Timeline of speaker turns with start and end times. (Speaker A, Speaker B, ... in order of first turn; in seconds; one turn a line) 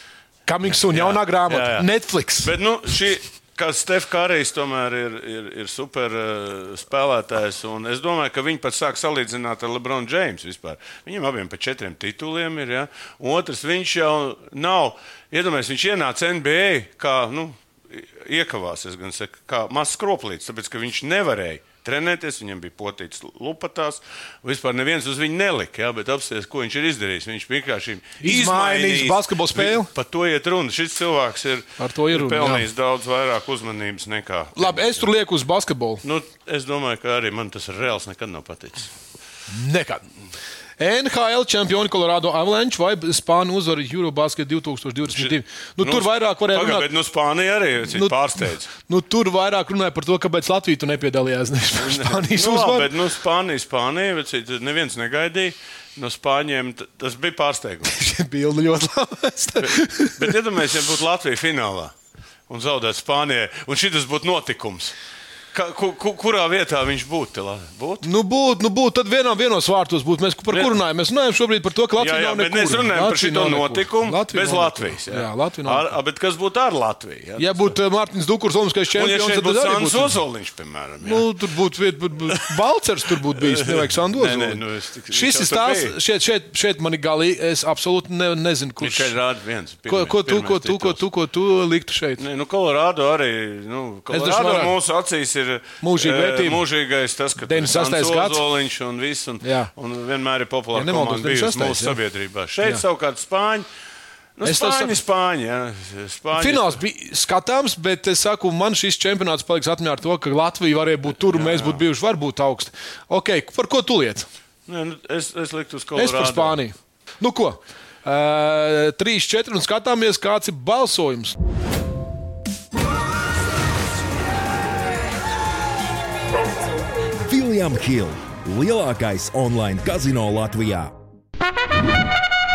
Speaker A: 0.5-2.5
Speaker B: 0.8-35.1
Speaker A: 28.2-29.9
Speaker A: 31.8-32.7
Speaker A: 34.6-36.0
Speaker B: 36.0-38.9
Speaker A: 39.5-40.0
Speaker A: 40.8-46.9
Speaker B: 45.1-48.7
Speaker A: 47.9-52.9
Speaker B: 51.8-57.9
Speaker A: 57.8-60.4
Speaker B: 59.6-61.9
Speaker B: 62.5-65.0
Speaker B: 65.5-68.1
Speaker A: 68.0-75.9
Speaker B: 70.5-70.8
Speaker B: 72.0-77.8
Speaker A: 77.4-80.2
Speaker B: 78.9-81.3
Speaker A: 81.0-89.2
Speaker B: 83.4-85.9
Speaker B: 88.8-91.0
Speaker A: 89.9-92.2
Speaker B: 92.2-103.7
Speaker A: 94.1-94.8
Speaker A: 95.8-96.7
Speaker A: 97.4-98.5
Speaker A: 99.4-99.7
Speaker A: 100.7-102.0
Speaker B: 104.4-106.8
Speaker A: 104.4-105.0
Speaker A: 106.3-114.3
Speaker B: 111.3-111.8
Speaker B: 114.7-116.6
Speaker A: 116.0-121.4
Speaker C: 127.2-130.9